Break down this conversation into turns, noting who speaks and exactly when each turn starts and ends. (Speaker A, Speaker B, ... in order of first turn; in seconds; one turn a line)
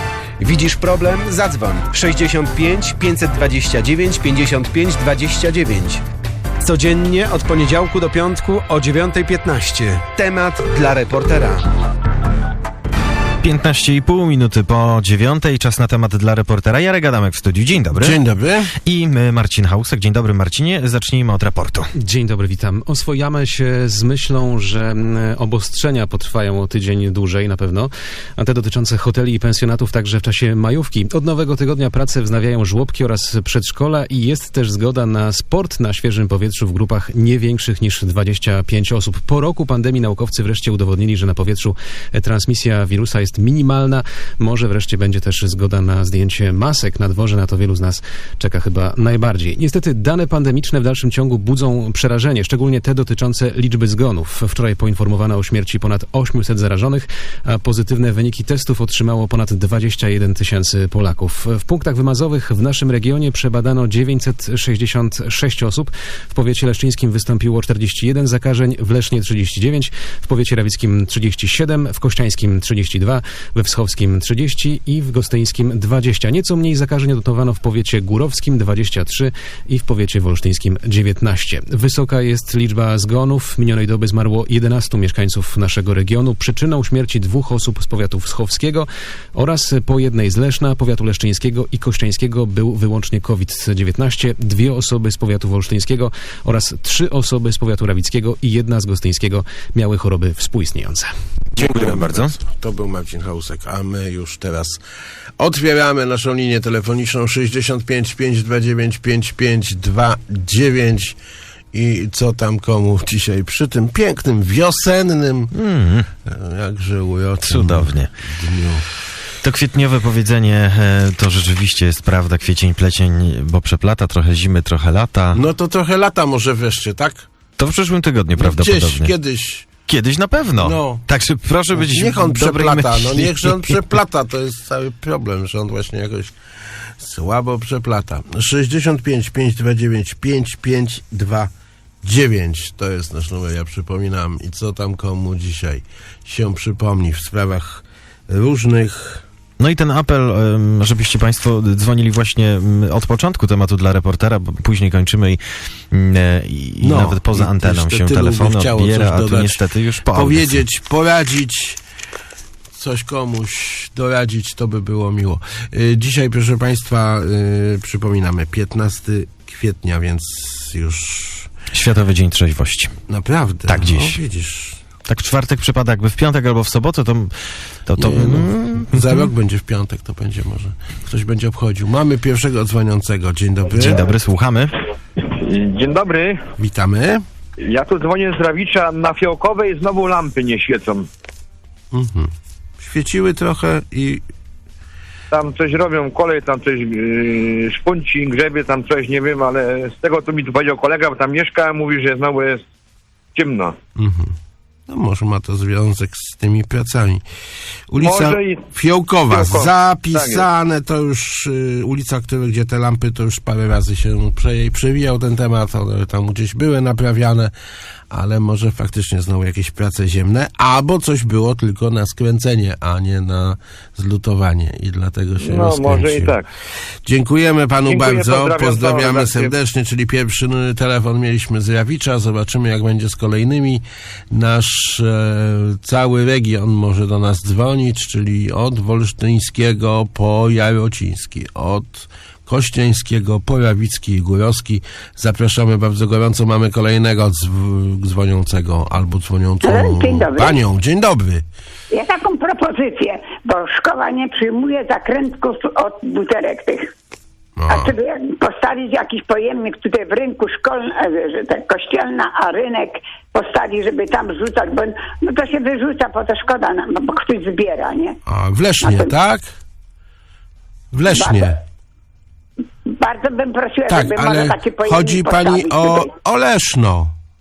Speaker A: 0.4-6.0
Speaker A: 6.6-11.7
Speaker B: 13.4-18.2
Speaker C: 17.9-18.7
Speaker B: 18.9-21.9
Speaker D: 22.0-101.1
Speaker B: 101.5-102.4
Speaker C: 101.6-104.8
Speaker C: 105.4-111.2
Speaker C: 111.7-115.5
Speaker B: 115.5-116.1
Speaker C: 116.2-118.9
Speaker B: 117.5-118.1
Speaker B: 119.4-125.4
Speaker C: 125.3-127.3
Speaker B: 127.6-129.1
Speaker C: 128.4-129.7
Speaker B: 129.8-133.8
Speaker C: 130.6-131.0
Speaker C: 131.8-136.3
Speaker C: 137.0-141.5
Speaker C: 142.0-149.2
Speaker B: 149.6-160.6
Speaker C: 156.8-161.8
Speaker C: 162.7-171.5
Speaker B: 171.7-172.9
Speaker C: 173.1-174.8
Speaker B: 173.7-174.2
Speaker B: 175.1-179.3
Speaker C: 178.0-184.1
Speaker B: 183.7-184.8
Speaker E: 185.2-186.4
Speaker C: 186.6-187.2
Speaker E: 187.6-191.1
Speaker C: 191.9-194.3
Speaker E: 195.3-202.7
Speaker E: 203.3-203.8
Speaker C: 204.0-204.3
Speaker C: 204.9-207.2
Speaker C: 207.9-217.5
Speaker E: 208.0-208.6
Speaker E: 209.3-210.4
Speaker C: 218.1-226.4
Speaker E: 225.4-226.5
Speaker C: 227.1-251.5
Speaker E: 227.9-229.5
Speaker F: 249.7-250.6
Speaker F: 251.9-256.9
Speaker C: 257.6-257.9
Speaker F: 257.7-268.2
Speaker C: 268.3-269.5
Speaker F: 268.8-269.1
Speaker C: 270.9-271.6
Speaker F: 271.1-271.6
Speaker F: 272.9-276.1
Speaker C: 273.9-277.1